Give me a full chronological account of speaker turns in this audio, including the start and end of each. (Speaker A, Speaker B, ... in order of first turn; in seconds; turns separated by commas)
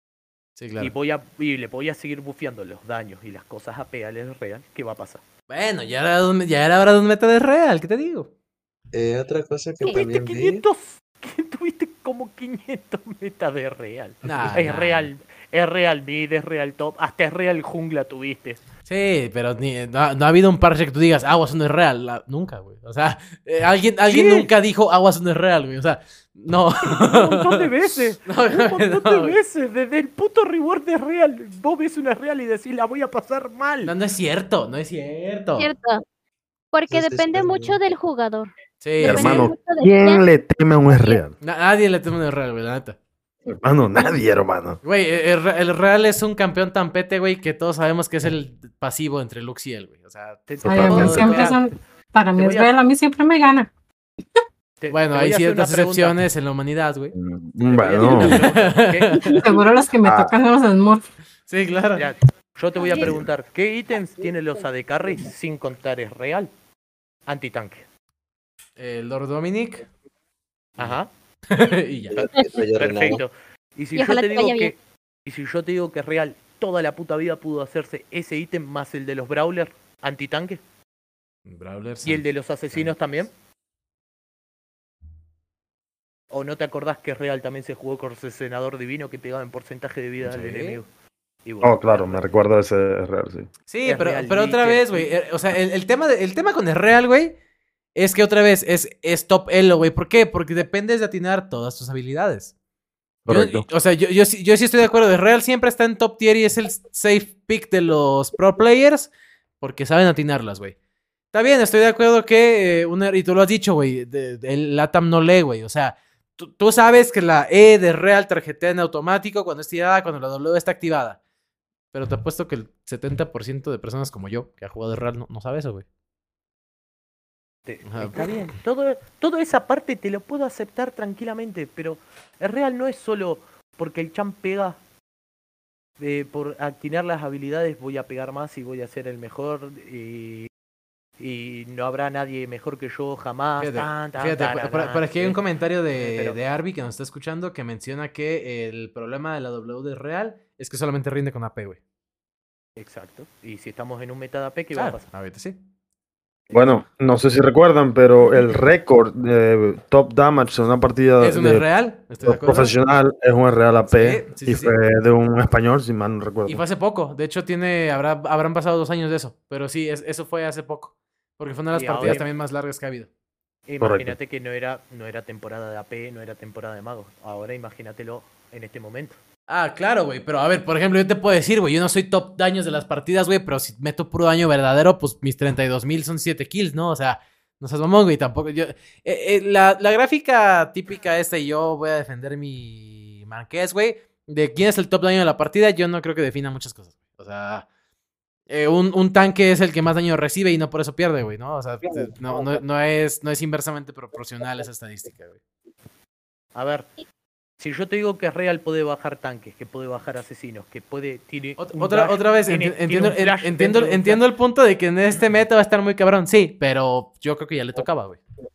Speaker A: 0.6-0.9, Speaker B: 0.8-5.2, Speaker A: 5.5-8.3, Speaker C: 8.9-10.6, Speaker B: 9.8-18.6, Speaker A: 14.2-15.1, Speaker A: 18.9-27.7, Speaker B: 24.1-24.5, Speaker B: 26.8-33.9, Speaker A: 28.2-29.4, Speaker A: 33.8-35.7, Speaker D: 35.6-36.0, Speaker D: 36.7-40.2, Speaker C: 36.9-37.8, Speaker A: 38.8-39.5, Speaker E: 39.0-41.3, Speaker D: 40.9-41.2, Speaker A: 41.4-43.0, Speaker E: 43.5-44.8, Speaker A: 44.8-51.3, Speaker B: 50.5-51.7, Speaker E: 50.6-51.4, Speaker F: 50.6-53.7, Speaker B: 52.4-52.7, Speaker B: 54.8-56.2, Speaker A: 54.9-57.1, Speaker E: 57.1-58.4, Speaker B: 57.6-59.4, Speaker A: 58.0-59.4, Speaker F: 59.4-61.0, Speaker E: 60.0-60.4, Speaker A: 61.5-62.1, Speaker B: 62.0-66.5, Speaker D: 62.8-63.1, Speaker B: 67.3-67.8, Speaker A: 68.8-69.8, Speaker B: 70.8-71.1, Speaker A: 71.5-72.2, Speaker C: 72.1-73.2, Speaker B: 72.8-80.6, Speaker D: 73.9-74.7, Speaker A: 81.5-82.9, Speaker B: 82.0-83.3, Speaker B: 86.3-90.9, Speaker A: 90.2-90.8, Speaker B: 91.4-92.2, Speaker E: 91.6-93.5, Speaker A: 93.7-97.4, Speaker B: 93.8-95.1, Speaker A: 97.9-102.5, Speaker E: 103.2-103.7, Speaker A: 103.3-110.8, Speaker A: 111.3-121.2, Speaker A: 121.9-125.8, Speaker B: 127.7-134.8, Speaker A: 127.8-128.3, Speaker B: 136.0-140.5, Speaker B: 141.2-145.4, Speaker A: 143.6-151.8, Speaker B: 146.0-146.4, Speaker B: 152.8-155.1, Speaker A: 154.7-155.6, Speaker E: 156.5-161.7, Speaker A: 161.2-162.7, Speaker E: 162.2-166.6, Speaker A: 163.9-164.8, Speaker A: 166.4-173.1, Speaker B: 171.7-172.3, Speaker B: 173.7-179.2, Speaker E: 173.8-174.2, Speaker A: 179.5-197.7, Speaker A: 198.5-205.4, Speaker B: 206.5-206.9, Speaker B: 207.6-214.2, Speaker A: 211.6-218.2